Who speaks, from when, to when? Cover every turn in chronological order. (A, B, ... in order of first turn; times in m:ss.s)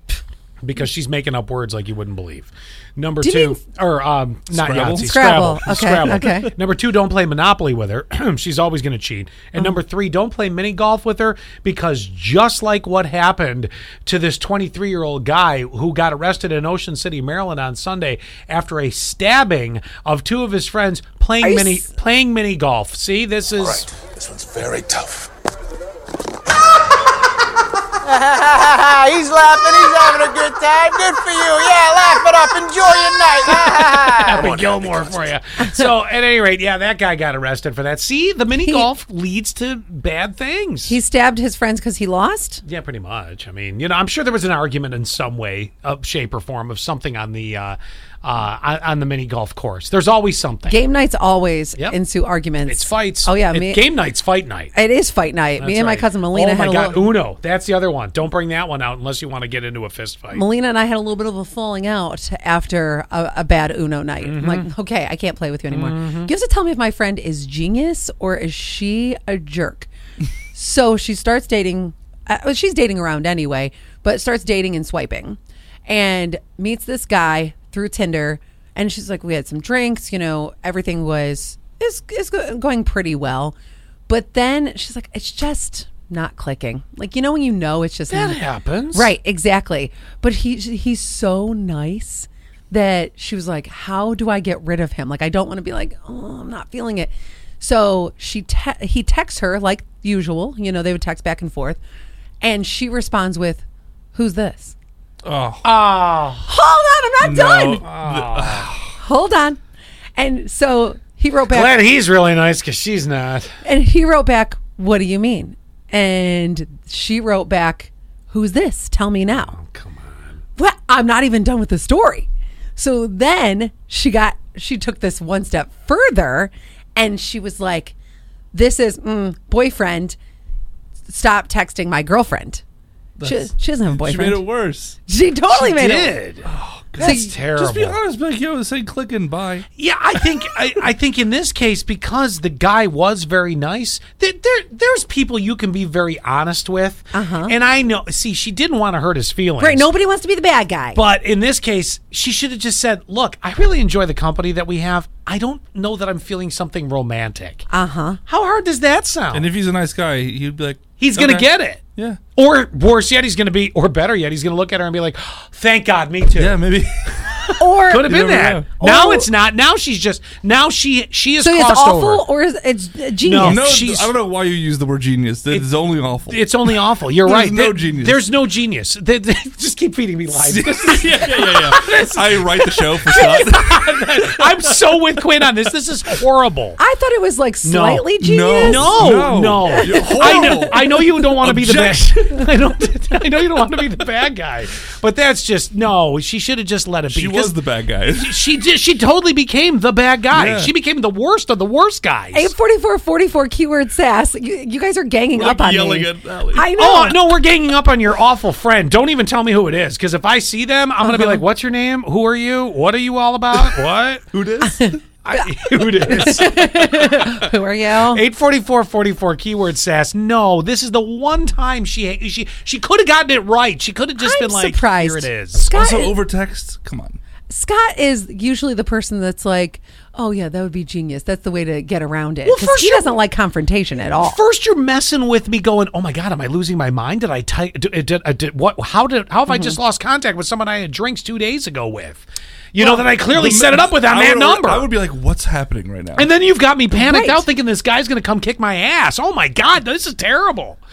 0:00.6-0:24.0 A
0:03.2-0:03.6 B
0:04.5-0:06.5 C
0:04.9-0:06.5 B
0:21.4-0:21.9 B
0:24.2-0:25.3 D
0:28.0-0:34.9 D
0:33.4-0:41.0 A
0:38.5-0:38.9 B
0:40.9-0:42.6 B
0:42.6-0:50.8 A
0:50.7-0:53.9 B
0:52.6-0:54.7 A
0:54.7-0:57.1 B
0:55.6-1:00.4 A
1:00.3-1:09.9 B
1:04.2-1:04.7 A
1:05.7-1:06.3 A
1:10.5-1:23.5 B
1:24.1-1:28.4 B
1:28.1-1:29.1 A
1:28.9-1:41.8 B
1:42.4-1:43.6 B
1:44.1-1:44.7 B
1:45.2-1:45.6 C
1:45.6-1:46.5 A
1:46.5-1:47.8 B
1:47.2-1:49.0 C
1:47.8-1:48.7 A
1:49.0-1:49.6 B
1:50.2-1:51.8 B
1:51.5-1:53.5 A
1:53.6-1:59.5 B
1:59.3-2:00.4 A
2:00.6-2:07.9 B
2:08.5-2:10.2 B
2:11.1-2:12.6 B
2:13.2-2:15.0 C
2:13.2-2:14.4 B
2:15.1-2:16.1 B
2:15.5-2:18.0 A
2:16.4-2:19.6 C
2:17.0-2:17.3 B
2:19.8-2:29.9 A
2:27.1-2:27.5 B
2:29.6-2:31.0 B
2:30.9-2:37.6 A
2:37.7-2:38.2 B
2:38.3-2:39.5 A
2:39.3-2:42.2 C
2:41.0-2:41.8 A
2:42.3-2:46.6 A
2:46.3-2:48.6 C
2:47.6-2:48.2 B
2:47.9-2:52.2 A
2:48.8-2:49.3 B
2:51.4-2:53.6 B
2:53.2-2:54.1 A
2:53.4-2:56.7 C
2:56.3-3:06.8 A
2:57.2-2:58.2 C
3:00.3-3:03.9 C
3:06.8-3:09.0 B
3:07.6-3:08.0 A
3:08.2-3:12.3 C
3:08.6-3:17.6 A
3:09.6-3:10.8 B
3:17.1-3:18.4 C
3:18.2-3:22.5 A
3:20.3-3:20.7 C
3:22.3-3:27.2 B
3:25.3-3:26.6 C
3:26.6-3:34.3 A
3:31.0-3:31.4 B
3:33.5-3:33.8 C
3:34.3-3:35.0 C
3:34.6-3:38.2 B
3:35.2-3:37.4 A
3:38.1-3:45.7 A
3:44.2-3:46.2 B
3:45.7-3:47.2 C
3:47.5-3:54.4 B
3:52.4-3:53.2 A
3:54.0-4:04.9 A
3:59.5-3:59.8 B
4:02.8-4:06.3 C
4:06.2-4:10.8 A
4:06.9-4:07.4 B